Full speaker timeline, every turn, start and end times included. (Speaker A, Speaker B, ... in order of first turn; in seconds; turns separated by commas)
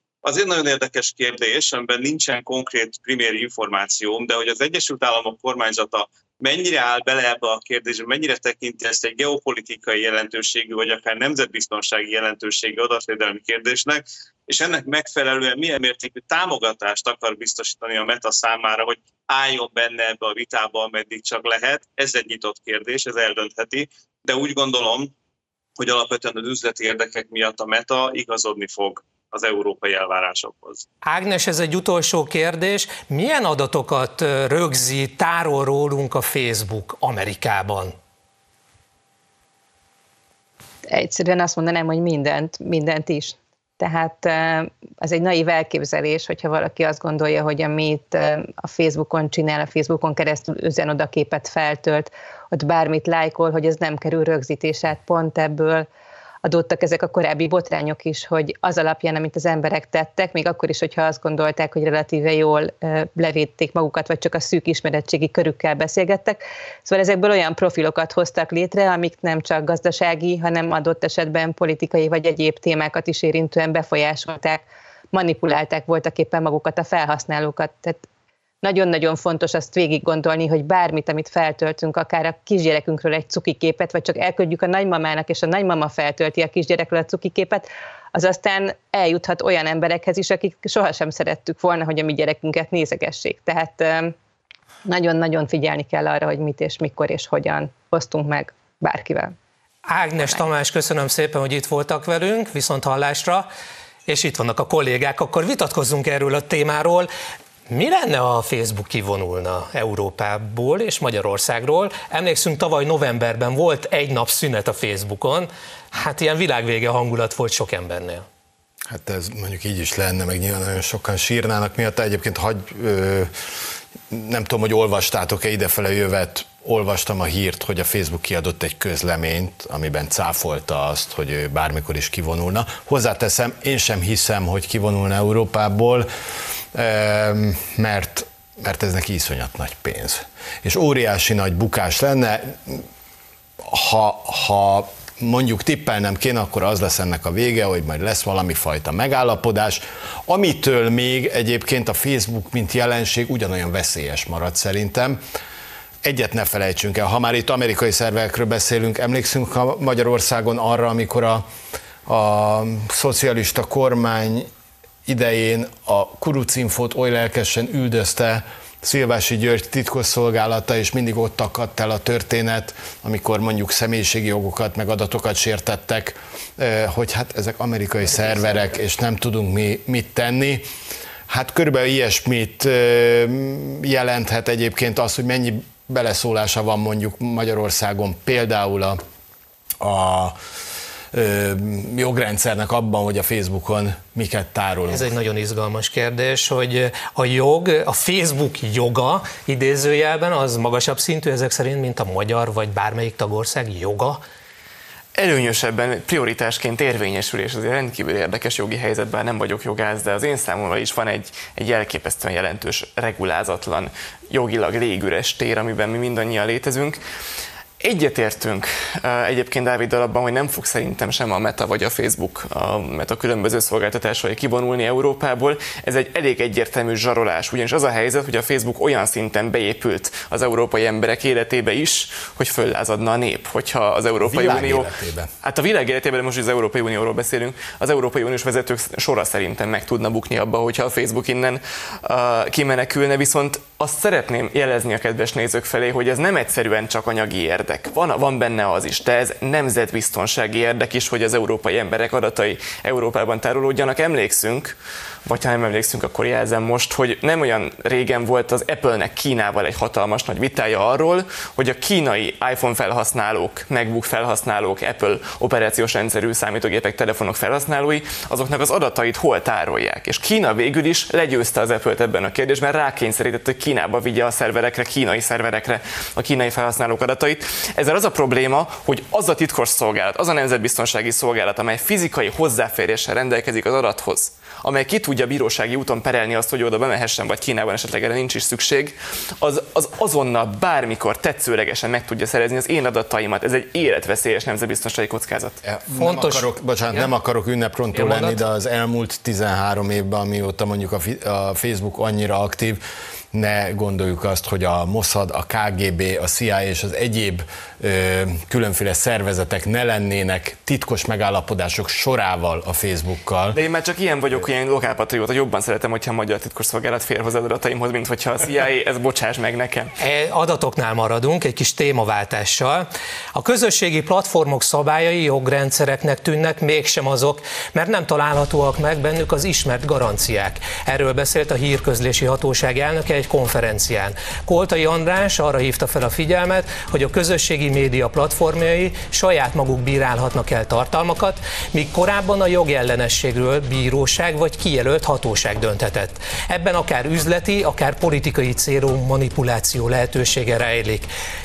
Speaker A: 0.2-25.1, Speaker A: 25.8-30.8, Speaker B: 31.1-37.9, Speaker C: 40.9-55.9, Speaker C: 56.4-78.0, Speaker C: 78.6-94.1, Speaker C: 94.8-99.3, Speaker B: 99.9-103.5, Speaker B: 104.1-107.1, Speaker B: 107.7-118.2, Speaker D: 118.9-123.5, Speaker D: 124.1-136.1, Speaker D: 136.7-142.9, Speaker D: 143.6-155.2, Speaker D: 156.0-161.5, Speaker D: 162.1-164.5, Speaker D: 165.1-180.7, Speaker D: 181.3-189.0, Speaker D: 189.8-190.4, Speaker D: 191.1-195.1, Speaker B: 194.9-204.2, Speaker E: 205.2-217.0, Speaker E: 217.8-234.9, Speaker D: 234.2-235.3, Speaker E: 235.4-254.8, Speaker E: 255.2-295.6, Speaker D: 295.6-302.8, Speaker B: 296.0-297.1, Speaker B: 297.9-298.4, Speaker D: 303.3-313.6, Speaker E: 313.5-319.9, Speaker B: 320.0-351.1